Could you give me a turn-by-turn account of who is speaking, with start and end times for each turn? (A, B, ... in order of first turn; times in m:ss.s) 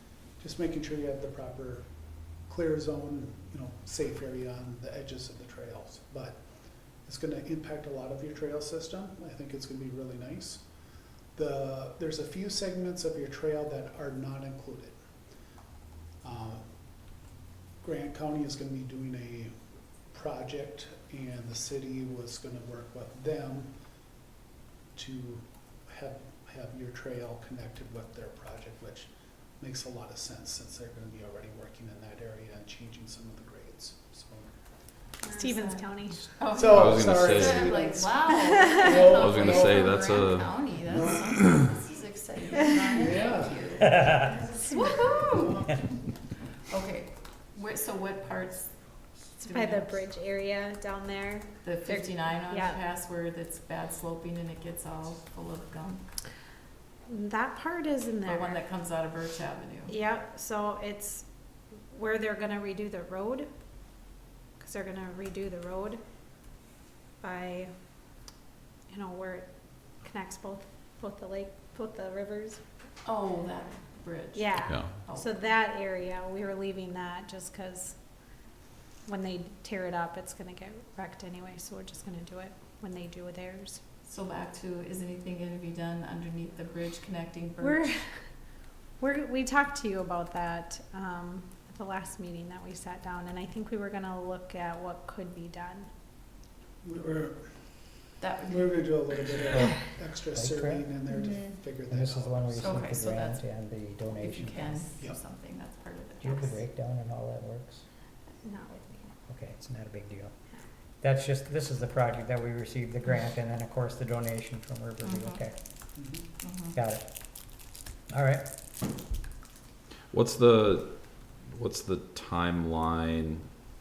0:00.4-0:01.8 A
0:02.5-0:06.4 A
0:07.0-0:10.6 A
0:11.3-0:15.0 A
0:16.2-0:16.6 A
0:17.8-0:19.5 A
0:20.1-0:23.7 A
0:24.9-0:34.5 A
0:35.2-0:45.8 B
0:35.3-0:36.6 C
0:36.5-0:39.9 A
0:36.6-0:37.7 D
0:38.7-0:39.1 C
0:39.1-0:40.5 D
0:42.9-0:43.8 A
0:46.7-0:48.8 B
0:49.3-0:50.0 B
0:49.4-0:52.8 C
0:51.6-0:56.0 B
0:57.1-0:58.6 C
0:58.2-0:59.9 B
0:59.9-1:01.2 C
1:01.9-1:03.5 C
1:04.6-1:06.0 C
1:07.2-1:07.7 C
1:08.9-1:09.5 C
1:10.0-1:12.6 C
1:13.0-1:15.4 B
1:14.3-1:18.0 C
1:14.6-1:15.0 D
1:19.0-1:23.8 C
1:24.0-1:27.9 B
1:27.6-1:28.0 C
1:29.0-1:35.9 C
1:36.8-1:37.5 A
1:38.2-1:38.8 B
1:38.5-1:42.7 A
1:40.3-1:40.8 E
1:41.8-1:44.8 E
1:42.6-1:43.4 B
1:44.2-1:46.6 B
1:46.2-1:47.8 E
1:48.4-1:49.1 C
1:49.3-1:50.3 E
1:51.0-1:55.6 E
1:55.0-1:55.4 B
1:56.0-1:56.2 A
1:56.4-1:56.8 B
1:56.7-1:57.0 E
1:58.1-1:58.5 E
2:00.1-2:03.5 D